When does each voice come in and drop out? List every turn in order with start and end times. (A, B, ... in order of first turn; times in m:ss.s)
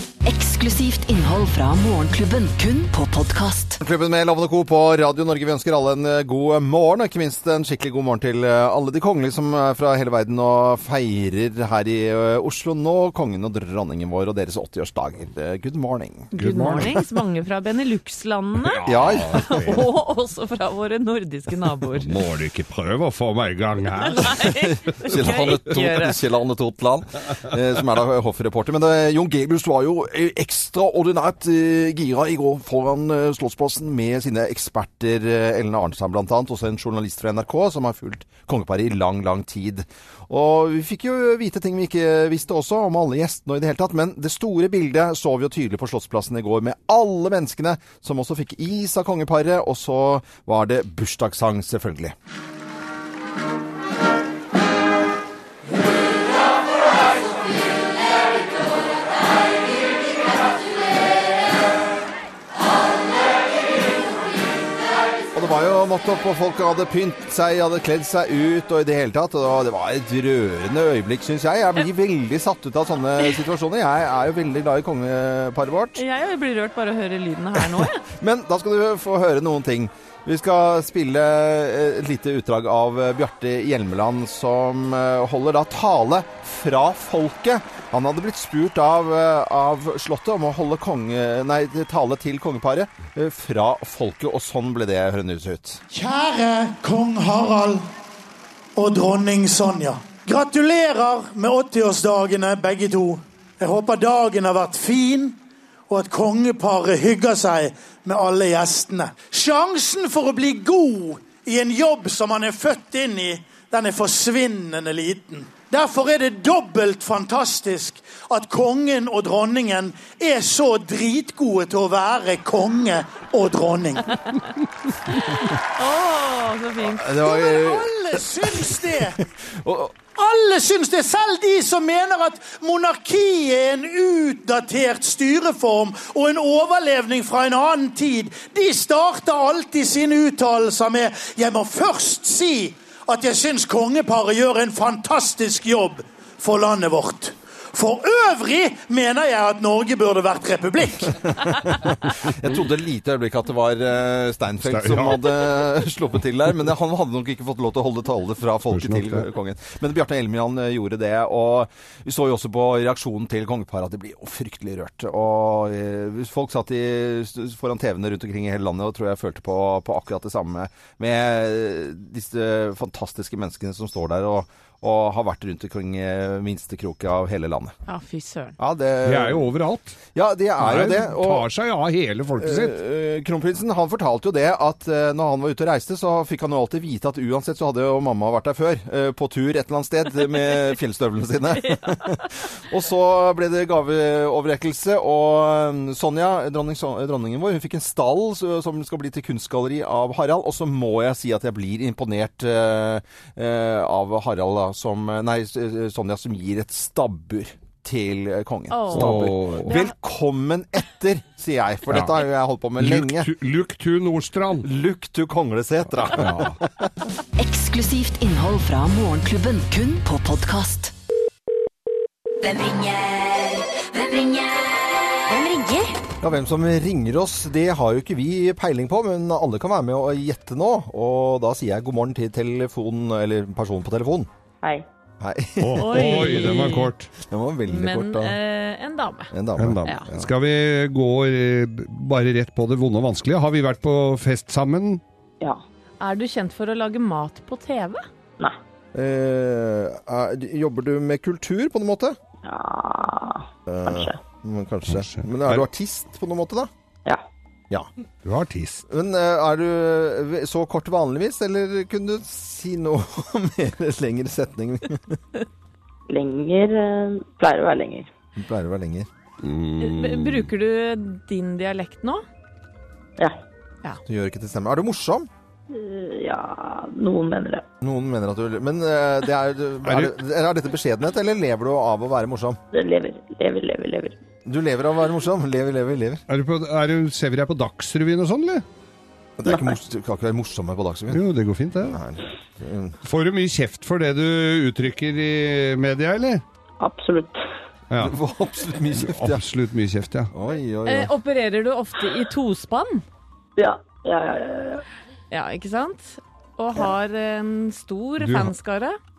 0:00.2-0:03.8 A
0:03.8-0:16.3 B
0:16.3-0:22.1 C
0:16.4-0:17.0 D
0:18.6-0:19.9 D
0:18.8-0:19.7 B
0:22.0-0:24.5 D
0:24.0-0:26.2 C
0:24.4-0:52.2 B
1:05.3-1:16.0 B
1:16.0-1:18.0 C
1:17.8-1:35.8 B
1:35.9-1:37.8 E
1:38.8-1:45.4 E
1:45.9-2:04.2 E
2:05.1-2:07.1 C
2:06.8-2:10.0 B
2:07.2-2:09.2 E
2:10.1-2:31.2 E
2:31.4-2:57.8 B
2:34.6-2:35.6 D
2:38.7-2:39.3 D
2:57.9-2:58.6 C
2:58.6-2:59.5 B
2:59.0-3:00.0 D
3:00.1-3:01.5 B
3:00.6-3:02.8 D
3:02.4-3:33.3 B
3:11.6-3:12.2 C
3:28.7-3:29.9 C
3:28.9-3:29.8 D
3:31.9-3:32.2 D
3:32.8-3:34.7 D
3:34.6-3:36.9 B
3:36.0-3:36.6 D
3:37.4-3:40.9 A
3:42.4-3:46.0 F
3:46.2-3:54.3 B
3:55.2-3:56.7 B
3:55.6-3:57.1 D
3:55.8-3:56.9 C
3:57.2-3:58.4 B
3:57.7-3:59.3 C
3:59.3-4:00.3 B
3:59.6-4:05.0 D
4:06.0-4:08.0 C
4:08.9-4:12.2 B
4:12.4-4:14.2 G
4:13.7-4:16.7 B
4:14.9-4:15.6 D
4:18.2-4:18.8 D
4:18.9-4:25.2 B
4:26.1-4:28.1 G
4:28.4-4:29.1 B
4:29.4-4:30.5 D
4:29.8-4:32.2 C
4:34.1-4:35.3 B
4:35.7-4:37.6 G
4:37.8-4:42.6 B
4:39.9-4:40.1 D
4:42.7-4:44.2 G
4:44.5-4:46.2 B
4:46.3-4:48.6 D
4:49.4-4:51.2 B
4:51.1-4:52.0 D
4:51.9-4:53.0 B
4:53.0-4:56.4 D
4:56.8-4:57.4 G
4:57.9-4:58.2 D
4:58.0-4:59.4 B
4:59.0-5:00.3 D
5:00.3-5:01.1 B
5:00.9-5:03.0 C
5:03.6-5:04.8 G
5:05.3-5:09.0 C
5:08.2-5:08.5 D